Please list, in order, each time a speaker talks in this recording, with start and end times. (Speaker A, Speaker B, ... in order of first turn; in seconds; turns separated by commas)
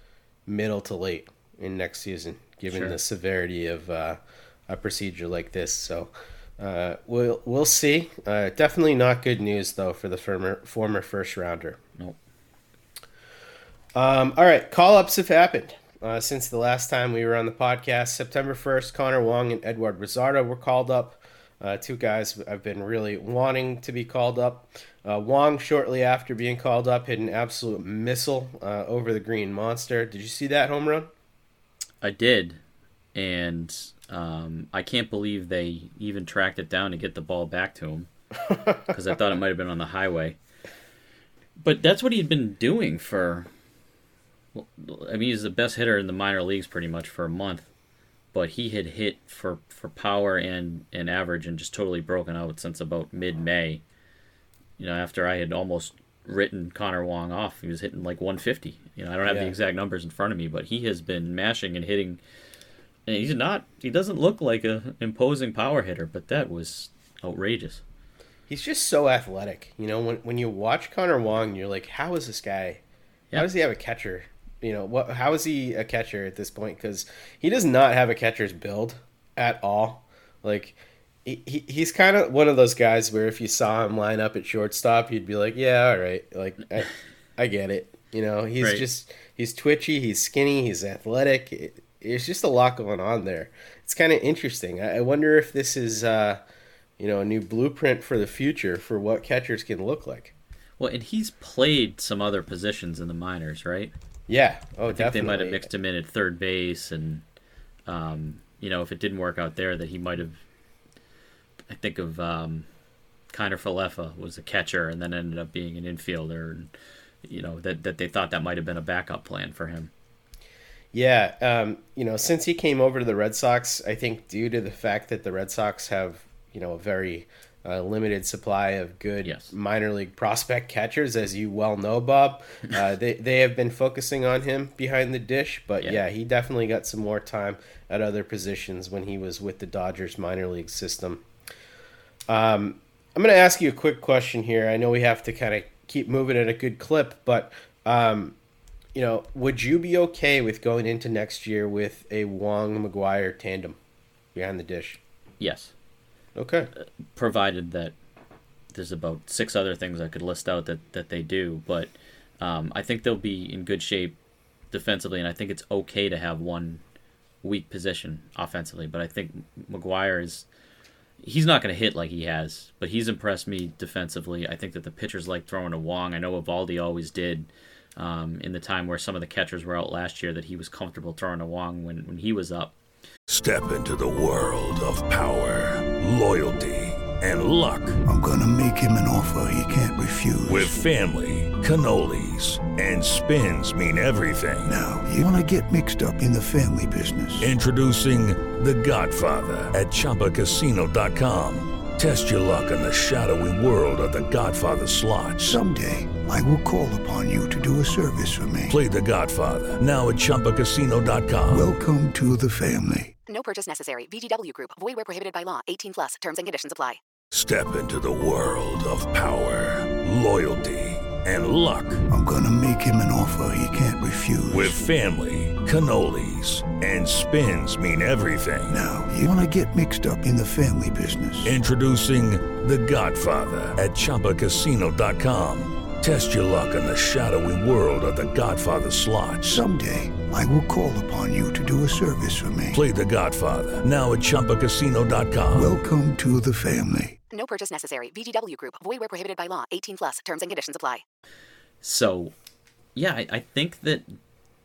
Speaker A: 0.5-11.8, Speaker B: 2.7-3.0, Speaker A: 13.9-31.1, Speaker B: 32.0-32.6, Speaker B: 33.1-38.1, Speaker B: 38.9-40.4, Speaker B: 41.6-43.5, Speaker B: 44.5-47.7, Speaker B: 48.3-53.8, Speaker B: 54.8-62.2, Speaker A: 59.2-59.5, Speaker B: 63.1-67.8, Speaker A: 68.5-72.8, Speaker A: 73.3-96.4, Speaker B: 88.6-88.8, Speaker A: 97.0-100.3, Speaker B: 100.8-103.9, Speaker A: 104.3-105.7, Speaker B: 104.9-107.2, Speaker B: 107.9-110.4, Speaker B: 111.7-112.7, Speaker B: 113.3-116.7, Speaker B: 117.2-119.9, Speaker A: 120.9-141.2, Speaker B: 129.2-129.5, Speaker A: 142.3-148.4, Speaker A: 148.9-153.8, Speaker A: 154.3-155.0, Speaker B: 155.4-155.7, Speaker A: 156.4-156.7, Speaker B: 157.2-157.9, Speaker B: 158.7-164.2, Speaker B: 164.7-166.8, Speaker B: 167.4-170.5, Speaker B: 171.2-182.8, Speaker C: 183.3-188.0, Speaker D: 188.1-190.8, Speaker C: 190.5-194.8, Speaker D: 194.7-197.5, Speaker C: 197.4-205.6, Speaker D: 205.4-208.8, Speaker C: 208.7-211.7, Speaker D: 211.5-213.1, Speaker E: 213.3-217.0, Speaker C: 217.3-222.0, Speaker D: 222.1-224.8, Speaker C: 224.5-229.0, Speaker D: 228.7-231.6, Speaker C: 231.4-239.6, Speaker D: 239.4-242.8, Speaker C: 242.7-245.8, Speaker D: 245.6-247.2, Speaker E: 247.3-251.0, Speaker B: 251.8-252.3, Speaker B: 253.0-254.2